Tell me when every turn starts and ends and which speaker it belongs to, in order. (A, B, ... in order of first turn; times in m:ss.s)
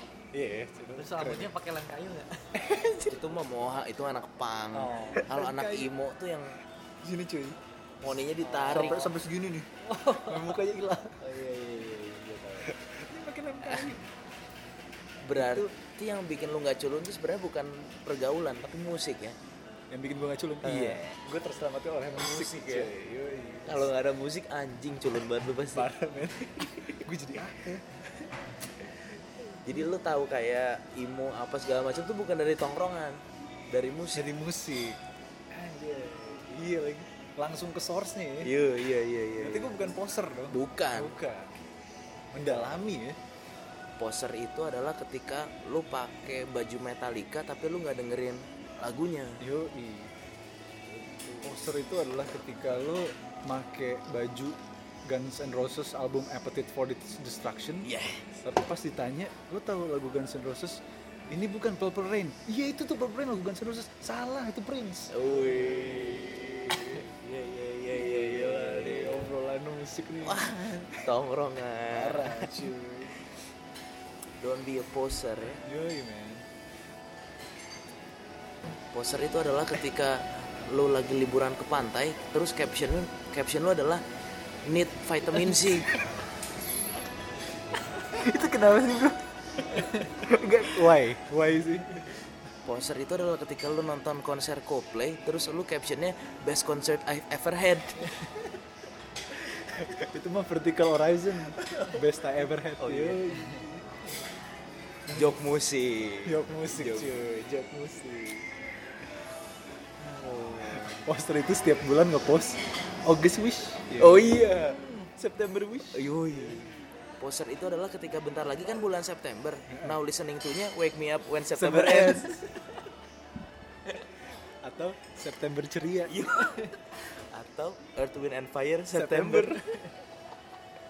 0:00.3-0:01.5 A
0:01.0-0:02.5 B
0:02.5-0:03.2 A
0:03.1-0:06.6 C
0:04.7-0:05.2 B
0:05.1-0:05.9 A
0:07.0-0:07.6 A
0:08.0-0:09.1 C
0:08.4-0:09.1 B
0:08.7-0:11.2 A
0:09.8-0:10.6 B
0:11.2-0:12.6 B
0:12.6-0:14.1 A
0:15.2-0:19.4 C
0:15.3-0:15.7 A
0:19.9-0:23.9 A
0:20.6-0:21.0 C
0:22.1-0:22.9 C
0:23.6-0:25.9 C
0:25.7-0:29.8 A
0:29.6-0:34.3 C
0:34.1-0:35.0 A
0:35.5-0:38.5 A
0:38.4-0:39.7 C
0:39.4-0:41.6 A
0:40.5-0:41.1 C
0:42.3-0:43.2 A
0:44.0-0:49.4 C
0:49.4-0:50.1 A
0:50.9-0:51.5 C
0:51.4-1:07.0 A
0:57.8-0:58.3 C
1:05.1-1:09.3 C
1:07.9-1:11.1 A
1:10.2-1:12.5 C
1:11.9-1:13.3 A
1:14.4-1:15.6 C
1:15.5-1:16.5 A
1:18.9-1:24.0 C
1:24.6-1:25.9 C
1:25.3-1:26.0 A
1:28.0-1:32.1 A
1:32.6-1:38.1 C
1:38.2-1:38.4 A
1:39.4-1:44.0 A
1:42.8-1:43.2 C
1:45.1-1:45.3 A
1:45.1-1:47.1 C
1:46.2-1:48.5 A
1:50.0-1:51.1 C
1:50.7-1:54.4 A
1:54.0-1:55.1 C
1:55.2-1:56.0 A
1:55.8-2:02.4 C
2:01.5-2:02.6 A
2:04.6-2:06.3 A
2:06.1-2:09.6 C
2:08.9-2:09.6 A